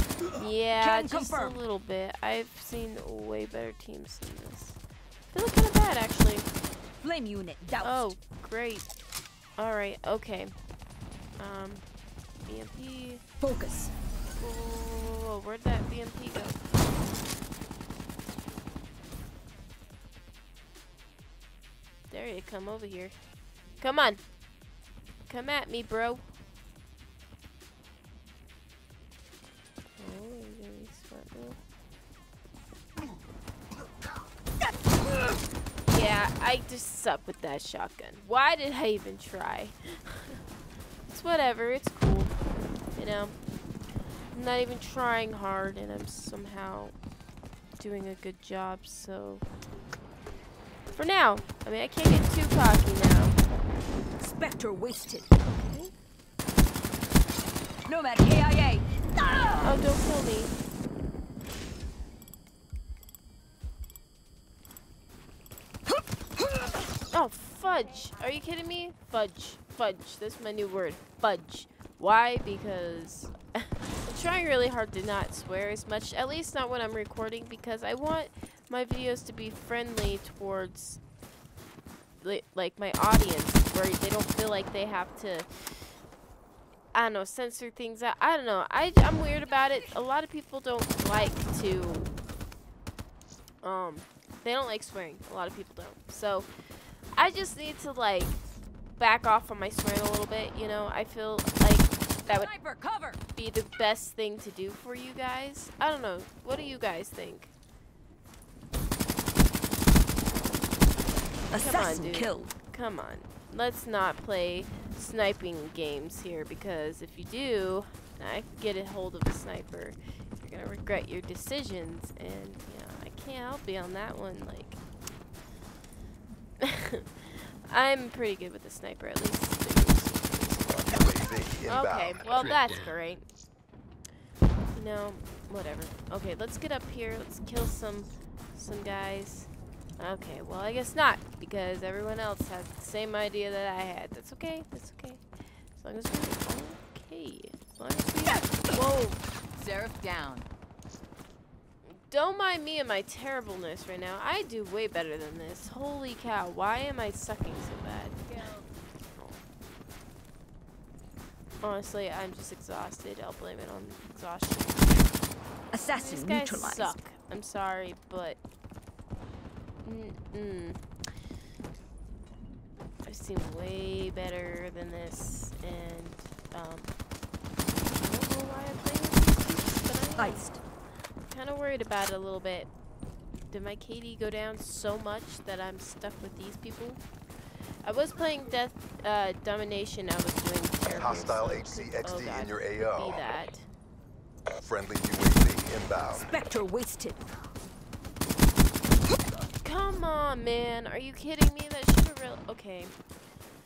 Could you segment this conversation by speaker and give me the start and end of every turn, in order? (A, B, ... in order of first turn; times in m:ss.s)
0:00.2-0:04.8 A
0:00.8-0:01.6 B
0:05.3-0:06.5 A
0:07.0-0:08.1 B
0:07.8-0:08.9 A
0:09.6-0:10.5 A
0:11.4-0:11.8 A
0:12.4-0:13.2 A
0:13.4-0:13.9 B
0:14.4-0:16.6 A
0:22.1-0:23.1 A
0:23.8-0:24.2 A
0:25.3-0:26.2 A
0:30.0-0:31.6 A
0:35.9-0:40.4 A
0:41.1-0:42.3 A
0:43.0-0:43.4 A
0:44.3-0:47.0 A
0:47.8-0:49.4 A
0:51.0-0:53.4 A
0:54.2-0:55.3 B
0:55.4-0:55.9 A
0:57.9-0:59.8 B
0:59.6-1:00.6 A
1:07.1-1:21.0 A
1:22.2-1:25.7 A
1:26.9-1:32.1 A
1:33.6-1:36.5 A
1:37.2-1:38.4 A
1:39.0-1:42.5 A
1:42.3-1:43.2 B
1:43.4-1:47.5 A
1:51.5-1:52.5 B
1:51.5-2:04.8 A
2:06.6-2:13.3 A
2:10.9-2:12.8 C
2:14.7-2:29.2 A
2:29.5-2:30.5 B
2:31.8-2:38.5 A
2:38.3-2:38.7 B
2:41.6-2:45.1 A
2:45.7-2:47.0 B
2:46.0-2:48.4 A
2:49.8-2:50.8 A
2:53.0-2:56.9 A
2:57.8-3:00.5 A
3:00.2-3:00.6 B
3:01.3-3:02.7 A
3:03.5-3:07.0 A
3:07.8-3:13.7 A
3:10.9-3:13.3 C
3:14.6-3:16.3 C
3:16.1-3:17.2 B
3:19.6-3:23.0 A